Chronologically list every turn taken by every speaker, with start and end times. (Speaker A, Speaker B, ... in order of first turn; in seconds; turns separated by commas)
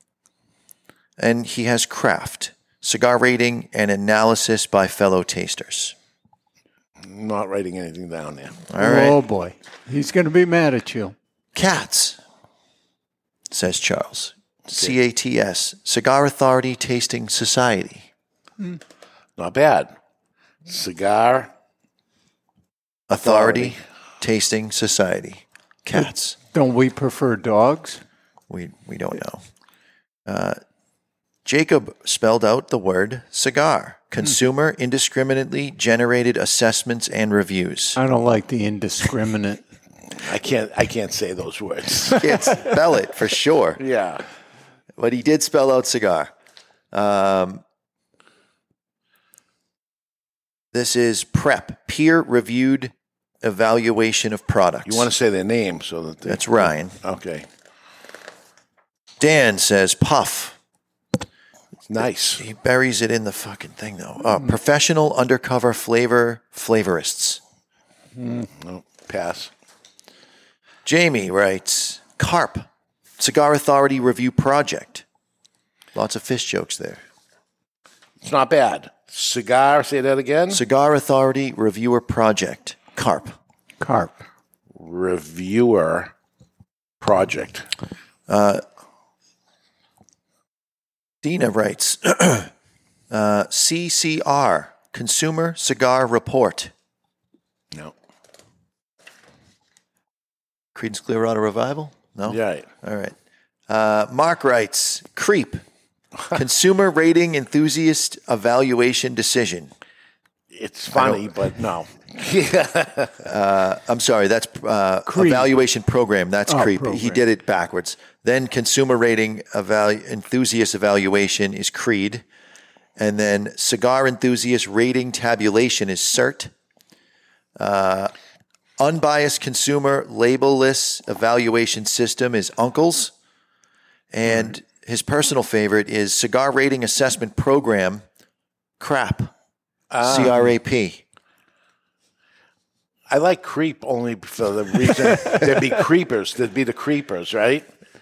Speaker A: 1.2-6.0, Speaker B: 7.0-8.6, Speaker A: 8.7-9.2, Speaker C: 8.8-11.2, Speaker A: 11.6-12.2, Speaker A: 13.5-18.1, Speaker B: 19.4-19.9, Speaker B: 20.7-21.5, Speaker A: 23.1-26.4, Speaker B: 23.2-23.8, Speaker C: 26.5-28.0, Speaker A: 28.5-29.4, Speaker A: 30.3-30.6, Speaker A: 31.4-38.0, Speaker C: 38.0-39.6, Speaker B: 40.1-42.4, Speaker A: 42.2-43.8, Speaker B: 43.8-44.2, Speaker A: 45.0-46.3, Speaker A: 46.9-47.6, Speaker A: 50.7-55.1, Speaker B: 54.9-57.5, Speaker A: 56.2-57.0, Speaker A: 59.2-60.6, Speaker B: 61.9-62.4, Speaker A: 62.4-67.4, Speaker C: 68.2-68.5, Speaker B: 68.4-69.5, Speaker A: 70.8-72.7, Speaker A: 73.2-75.0, Speaker A: 76.0-77.0, Speaker B: 78.2-80.6, Speaker A: 80.5-83.3, Speaker C: 83.8-84.2, Speaker B: 84.8-86.1, Speaker B: 87.0-87.7, Speaker A: 88.3-88.6, Speaker A: 91.2-92.5, Speaker A: 93.1-96.7, Speaker A: 100.8-103.2, Speaker B: 102.2-102.7, Speaker A: 103.7-105.6, Speaker A: 106.3-109.7, Speaker B: 110.5-113.2, Speaker A: 110.9-111.3, Speaker A: 113.2-122.2, Speaker C: 115.1-115.5, Speaker C: 116.5-117.2, Speaker A: 123.0-126.5, Speaker A: 127.6-128.1, Speaker A: 128.8-133.1, Speaker A: 134.1-138.1, Speaker A: 138.8-139.3, Speaker B: 139.9-140.5, Speaker A: 140.0-141.0, Speaker B: 143.1-147.7